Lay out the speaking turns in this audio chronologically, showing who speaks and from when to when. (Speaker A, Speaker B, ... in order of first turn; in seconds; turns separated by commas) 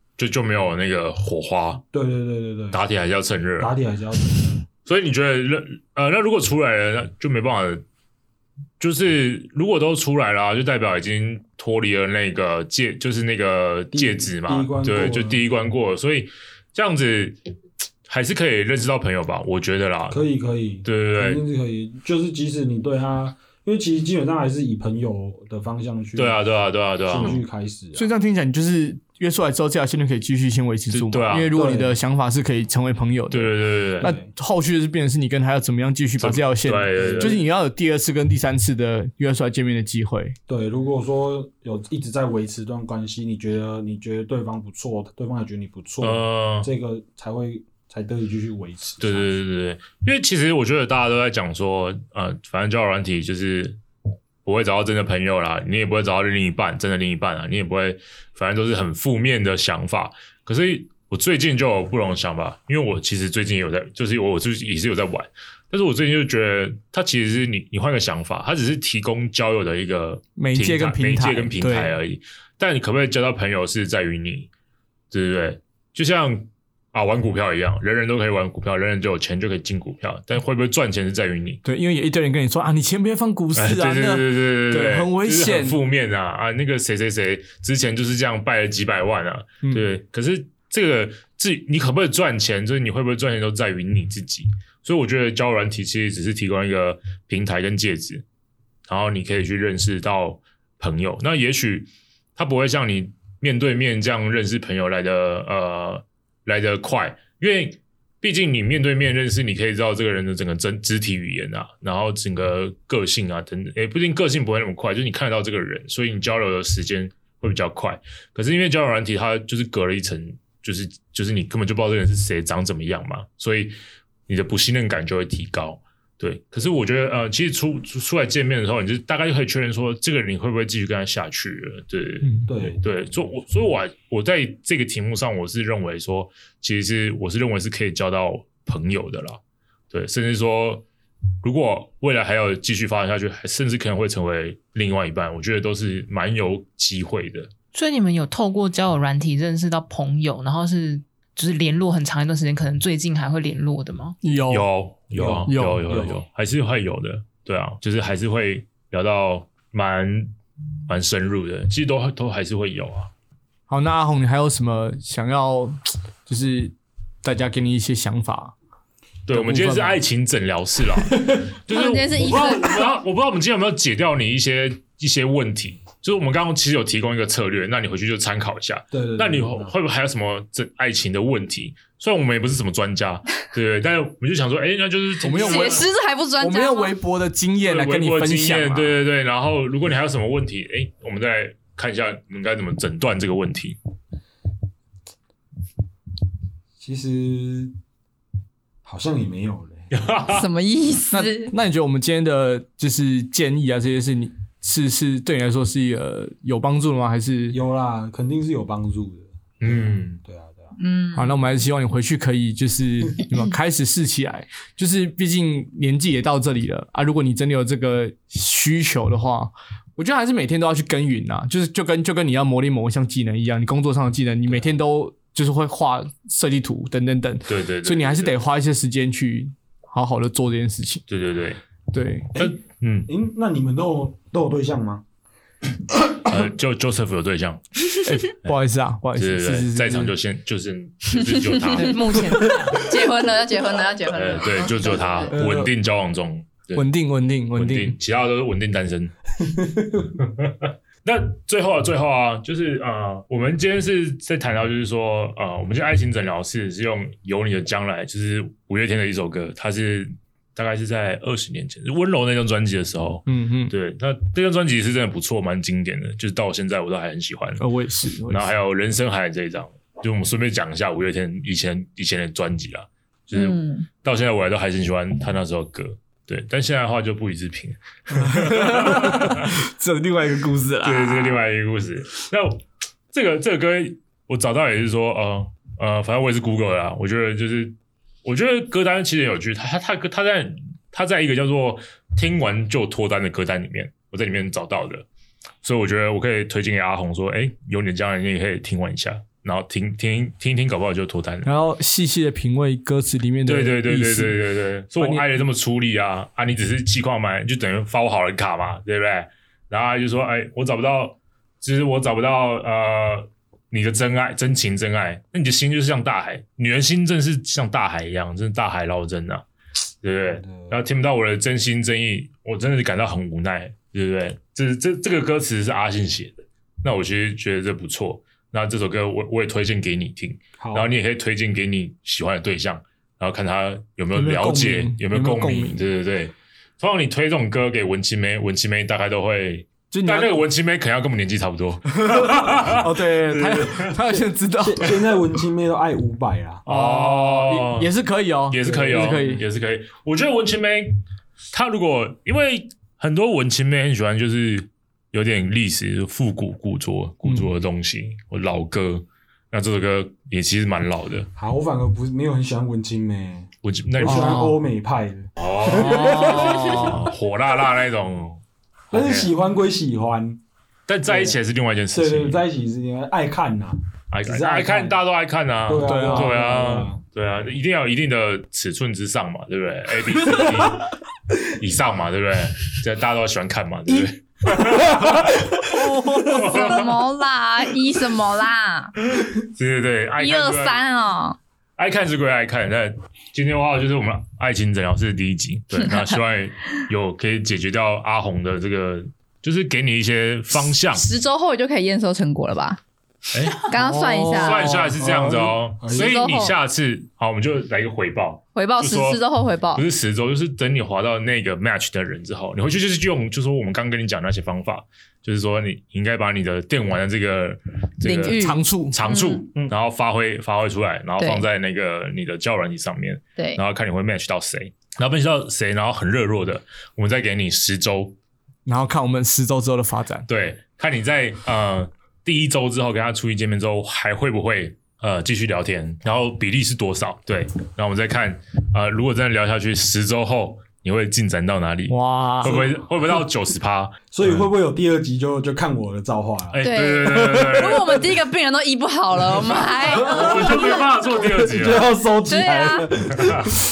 Speaker A: 0.2-1.8, Speaker B: 1.9-2.8, Speaker A: 2.7-3.7, Speaker B: 3.6-4.6, Speaker A: 4.8-7.8, Speaker A: 8.8-17.4, Speaker B: 13.9-15.4, Speaker A: 18.1-20.2, Speaker B: 20.1-26.4, Speaker A: 20.8-21.4, Speaker A: 26.1-27.4, Speaker B: 27.1-28.1, Speaker C: 27.9-40.4, Speaker A: 30.9-31.5, Speaker B: 31.3-31.9, Speaker A: 33.3-34.1, Speaker B: 34.0-34.3, Speaker A: 36.2-37.4, Speaker B: 37.0-37.4, Speaker B: 40.5-49.3, Speaker A: 46.0-46.7, Speaker A: 49.0-53.8, Speaker A: 54.4-74.5, Speaker C: 70.3-72.0, Speaker A: 75.1-81.6, Speaker C: 81.6-85.8, Speaker A: 83.5-98.2, Speaker A: 98.9-123.8, Speaker A: 124.3-139.4, Speaker C: 132.2-132.5, Speaker B: 132.5-132.8, Speaker A: 139.9-140.8, Speaker A: 141.4-147.5, Speaker D: 147.7-154.2, Speaker C: 154.2-154.7, Speaker A: 154.5-160.3, Speaker B: 155.1-156.2, Speaker C: 155.5-155.8, Speaker A: 160.9-163.1, Speaker C: 163.7-168.5, Speaker A: 169.3-185.8, Speaker C: 169.3-170.0, Speaker B: 171.1-171.4, Speaker E: 171.7-172.8, Speaker B: 178.9-179.7, Speaker C: 185.2-185.8, Speaker E: 185.3-186.9, Speaker C: 186.4-189.0, Speaker A: 187.6-193.8, Speaker B: 196.8-197.7, Speaker B: 198.8-199.8, Speaker A: 199.9-200.5, Speaker E: 200.3-201.5, Speaker C: 201.1-207.6, Speaker B: 207.5-210.7, Speaker A: 209.6-210.2, Speaker E: 210.8-211.4, Speaker C: 211.1-231.0, Speaker A: 227.5-228.3, Speaker A: 231.1-231.6, Speaker C: 231.9-232.3, Speaker B: 232.3-235.0, Speaker A: 232.4-233.1, Speaker A: 236.2-237.6, Speaker C: 238.0-240.1, Speaker A: 239.2-242.5, Speaker E: 241.2-241.9, Speaker D: 241.7-242.9, Speaker E: 242.7-245.3, Speaker A: 244.1-246.9, Speaker C: 245.3-245.7, Speaker C: 246.7-248.0, Speaker A: 247.5-249.1, Speaker B: 249.8-250.1, Speaker A: 250.2-267.6, Speaker C: 263.2-263.7, Speaker C: 267.6-268.5, Speaker A: 268.3-279.5, Speaker E: 273.3-273.9, Speaker C: 278.1-281.4, Speaker A: 280.8-282.6, Speaker A: 283.1-295.1, Speaker A: 295.6-301.5, Speaker C: 301.4-304.4, Speaker A: 303.4-319.4, Speaker C: 305.0-305.2, Speaker A: 320.0-344.1, Speaker B: 320.4-320.8, Speaker B: 330.6-330.9, Speaker C: 334.1-335.8, Speaker C: 339.9-340.4, Speaker C: 342.0-345.0, Speaker B: 344.6-346.6, Speaker A: 346.6-347.9, Speaker C: 346.6-349.4, Speaker A: 348.5-351.0, Speaker B: 348.6-349.3, Speaker A: 351.5-361.3, Speaker B: 361.4-366.9, Speaker A: 363.6-364.4, Speaker C: 364.1-364.6, Speaker A: 365.4-369.3, Speaker C: 365.9-367.0, Speaker B: 368.9-370.4, Speaker A: 370.9-372.4, Speaker B: 371.1-371.4, Speaker B: 371.9-375.0, Speaker A: 374.1-380.9, Speaker B: 375.6-377.0, Speaker C: 375.8-376.4, Speaker A: 381.5-387.0, Speaker C: 385.6-386.5, Speaker E: 386.3-388.9, Speaker A: 389.2-390.8, Speaker E: 390.2-391.4, Speaker A: 391.8-401.1, Speaker E: 400.9-402.8, Speaker A: 403.3-403.7, Speaker E: 403.7-404.6, Speaker C: 403.7-404.9, Speaker A: 404.3-428.1, Speaker B: 405.0-406.2, Speaker E: 405.9-406.5, Speaker E: 408.6-409.8, Speaker E: 418.0-419.4, Speaker C: 418.4-418.9, Speaker E: 421.2-421.4, Speaker C: 428.6-430.2, Speaker A: 430.3-444.4, Speaker C: 441.9-442.6, Speaker B: 442.4-443.2, Speaker B: 444.1-447.8, Speaker A: 446.5-448.1, Speaker E: 446.6-450.9, Speaker A: 449.9-452.0, Speaker B: 450.2-450.6, Speaker B: 451.1-453.6, Speaker E: 452.3-452.9, Speaker A: 453.1-453.5